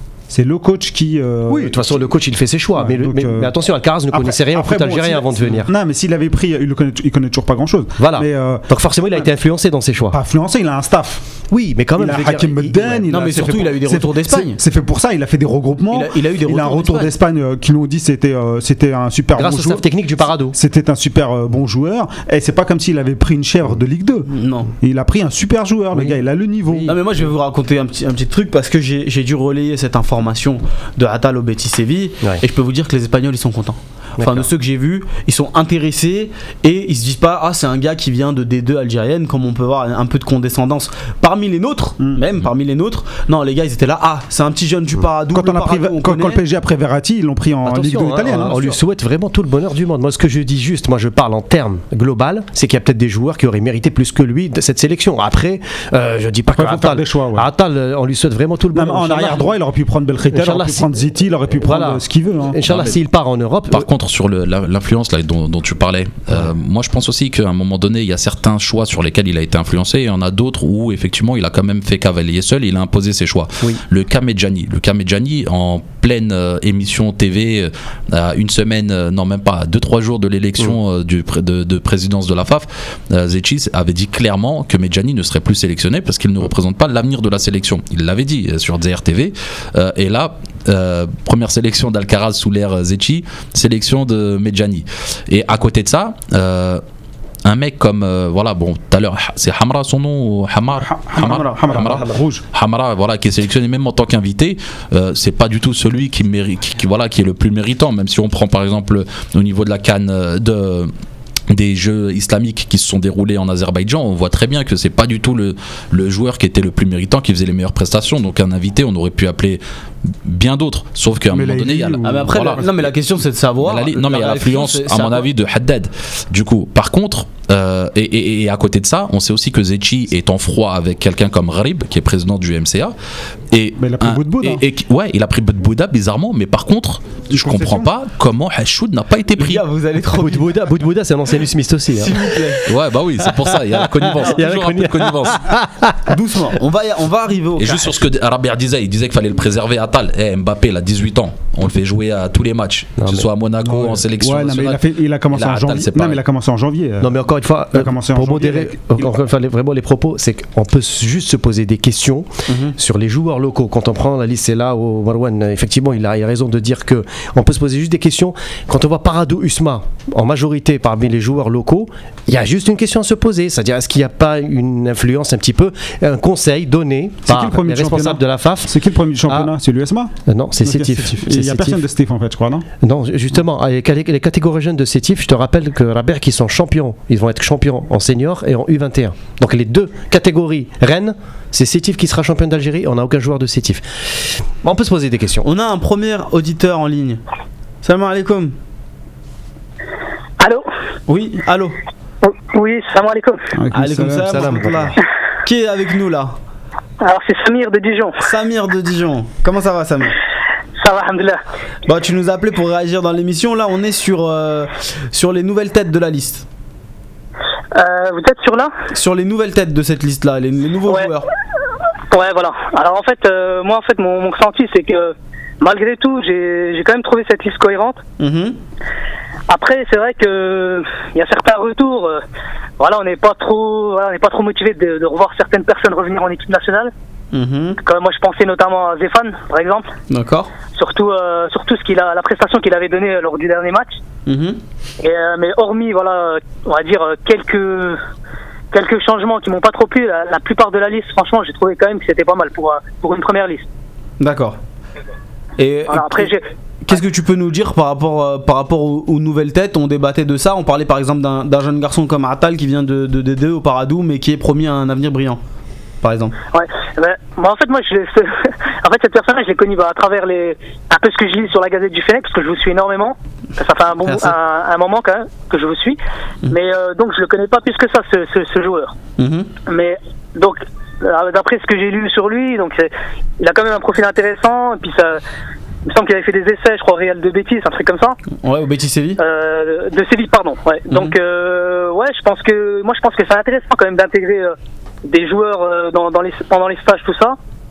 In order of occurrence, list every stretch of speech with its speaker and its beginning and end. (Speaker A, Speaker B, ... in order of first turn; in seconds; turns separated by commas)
Speaker A: 0.3-2.0, Speaker B: 1.5-5.7, Speaker A: 2.7-3.5, Speaker A: 4.1-8.7, Speaker B: 8.0-10.2, Speaker A: 10.1-11.2, Speaker B: 11.5-13.4, Speaker A: 12.0-19.8, Speaker C: 13.1-14.6, Speaker C: 15.9-17.1, Speaker B: 19.3-20.6, Speaker A: 20.5-26.9, Speaker C: 24.3-24.7, Speaker B: 25.9-27.0, Speaker C: 26.8-46.4, Speaker B: 34.2-34.5, Speaker A: 45.3-48.5, Speaker B: 47.6-59.5, Speaker A: 56.5-57.5, Speaker A: 58.7-62.6, Speaker B: 60.3-63.9, Speaker D: 62.6-63.0, Speaker D: 63.7-96.8, Speaker D: 97.4-110.9, Speaker A: 100.8-102.4, Speaker D: 111.5-122.9, Speaker A: 121.3-122.7, Speaker C: 122.0-125.3, Speaker D: 123.6-132.9, Speaker D: 133.5-139.6, Speaker A: 133.8-134.6, Speaker A: 137.3-137.9, Speaker C: 139.4-140.5, Speaker B: 140.1-142.6, Speaker C: 142.0-142.6, Speaker D: 142.7-145.4, Speaker B: 143.2-146.1, Speaker C: 146.1-147.9, Speaker D: 147.6-156.2, Speaker B: 153.0-153.3, Speaker A: 153.6-157.2, Speaker B: 157.0-178.7, Speaker A: 157.7-159.1, Speaker C: 162.5-162.7, Speaker A: 177.2-180.1, Speaker B: 179.3-179.5, Speaker B: 180.2-181.8, Speaker A: 180.6-182.7, Speaker B: 182.8-195.5, Speaker C: 195.4-197.2, Speaker C: 197.8-198.5, Speaker E: 200.4-200.7, Speaker C: 201.1-201.8, Speaker E: 202.2-203.4, Speaker A: 203.6-204.7, Speaker C: 203.7-206.3, Speaker B: 204.2-204.9, Speaker E: 207.0-208.2, Speaker C: 208.2-210.2, Speaker E: 210.8-211.4, Speaker C: 211.8-216.4, Speaker E: 217.7-218.7, Speaker C: 218.9-221.3, Speaker E: 222.1-228.0, Speaker C: 228.2-228.6, Speaker E: 229.5-232.2, Speaker E: 232.8-236.9, Speaker C: 237.3-237.8, Speaker E: 237.8-239.9, Speaker C: 240.1-240.5, Speaker E: 240.7-244.0, Speaker C: 244.2-244.6, Speaker E: 245.0-248.0, Speaker E: 248.7-253.7, Speaker C: 254.2-254.6, Speaker C: 255.6-256.3, Speaker E: 255.9-256.4, Speaker C: 256.9-265.4, Speaker C: 266.0-266.3, Speaker E: 266.5-276.0, Speaker C: 274.0-274.4, Speaker E: 276.5-278.9, Speaker C: 279.2-279.5, Speaker E: 279.6-285.2, Speaker E: 285.9-288.1, Speaker C: 288.4-289.2, Speaker E: 289.2-294.5, Speaker C: 290.9-291.1, Speaker E: 295.1-297.4